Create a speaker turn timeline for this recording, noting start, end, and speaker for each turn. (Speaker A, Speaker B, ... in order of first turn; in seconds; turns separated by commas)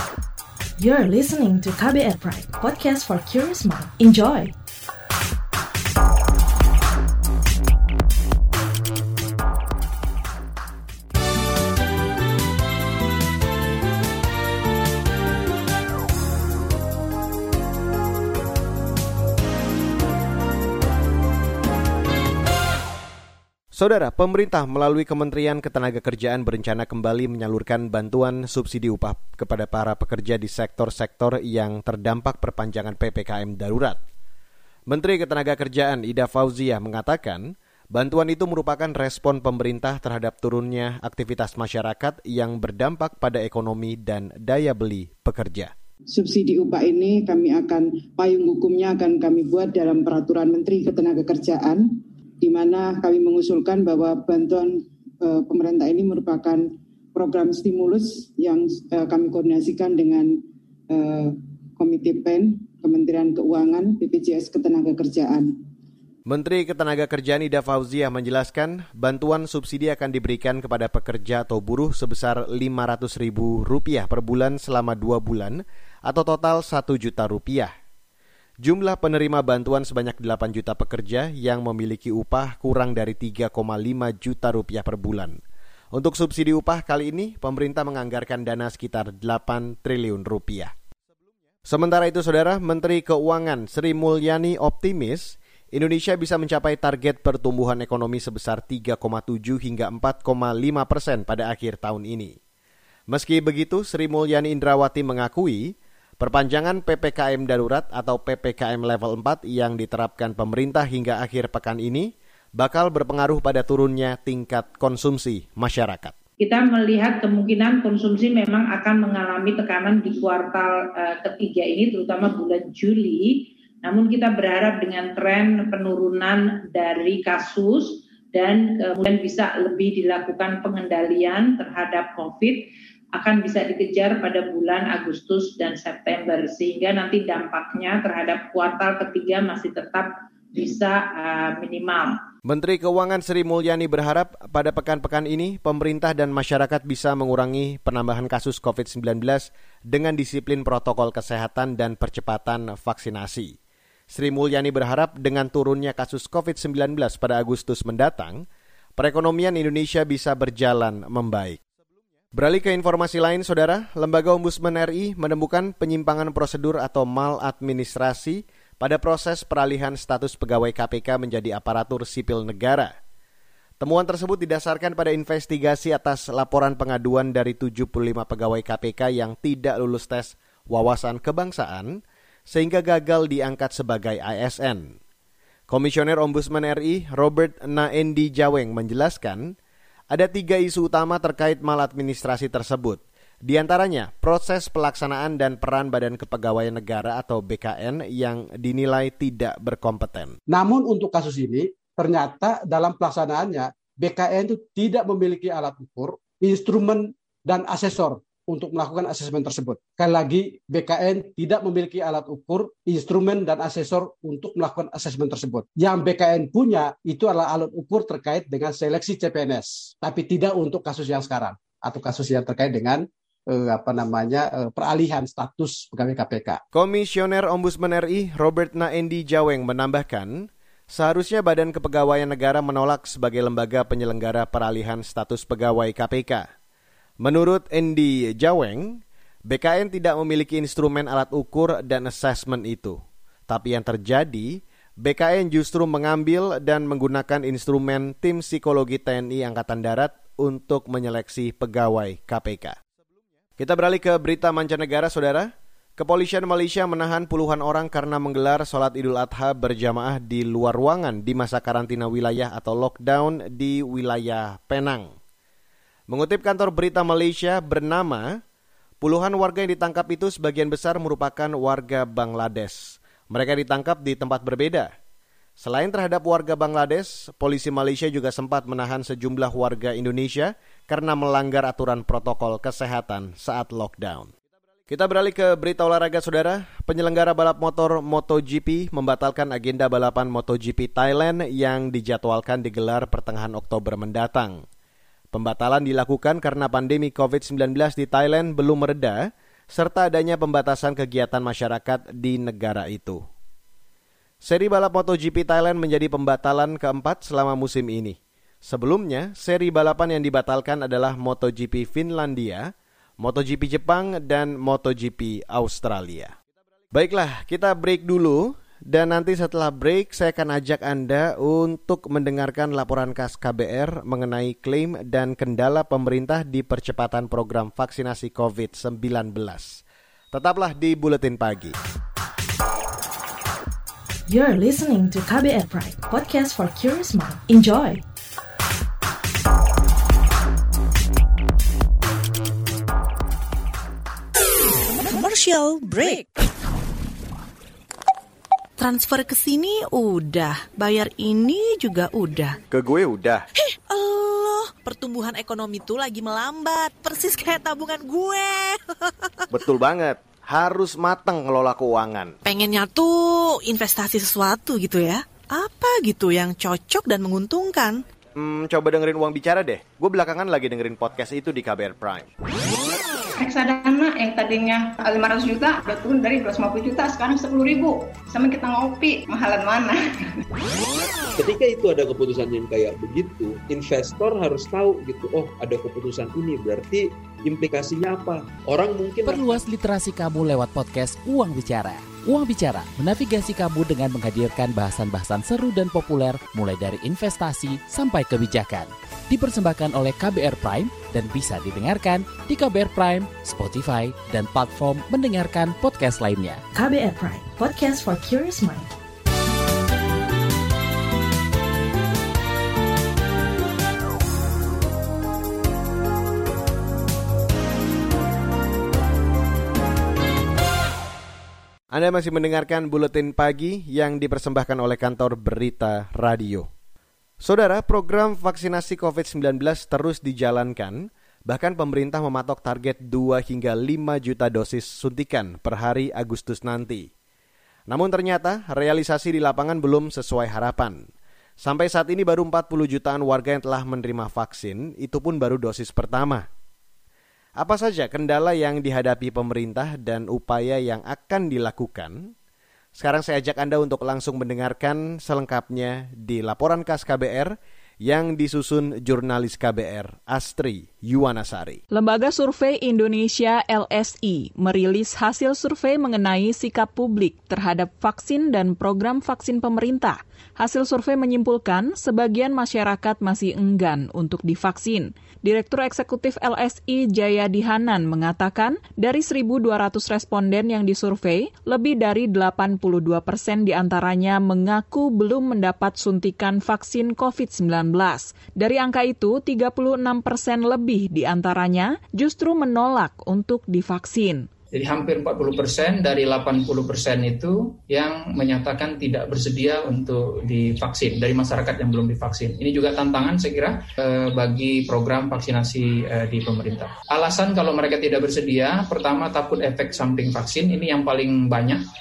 Speaker A: 0.8-4.5, Speaker B: 23.7-34.0, Speaker B: 34.9-45.7, Speaker C: 46.1-65.6, Speaker B: 66.2-77.7, Speaker B: 78.6-85.4, Speaker B: 85.9-90.7, Speaker B: 91.7-102.4, Speaker B: 103.1-116.2, Speaker D: 116.4-132.6, Speaker D: 133.2-142.1, Speaker B: 142.4-153.6, Speaker B: 154.1-158.4, Speaker B: 159.0-161.6, Speaker B: 162.3-172.9, Speaker B: 173.8-184.9, Speaker B: 185.7-189.5, Speaker B: 190.1-200.4, Speaker E: 200.5-226.6, Speaker B: 226.7-236.5, Speaker B: 237.2-252.8, Speaker B: 253.6-265.1, Speaker B: 266.1-268.3, Speaker B: 269.0-274.9, Speaker B: 275.6-284.3, Speaker B: 284.9-294.6, Speaker B: 295.3-303.2, Speaker B: 304.4-312.7, Speaker B: 313.2-316.3, Speaker B: 316.9-331.7, Speaker A: 334.3-338.0, Speaker F: 345.0-346.4, Speaker F: 348.8-352.6, Speaker B: 352.7-353.4, Speaker F: 353.6-359.1, Speaker B: 359.5-362.3, Speaker F: 362.4-368.0, Speaker B: 368.4-372.3, Speaker G: 373.4-380.0, Speaker H: 381.4-389.6, Speaker I: 389.2-406.6, Speaker A: 406.7-408.9, Speaker B: 421.9-426.7, Speaker B: 427.4-437.1, Speaker B: 437.9-441.0, Speaker B: 441.6-446.5, Speaker B: 447.6-452.3, Speaker B: 452.9-461.8, Speaker J: 461.9-494.5, Speaker K: 494.7-511.8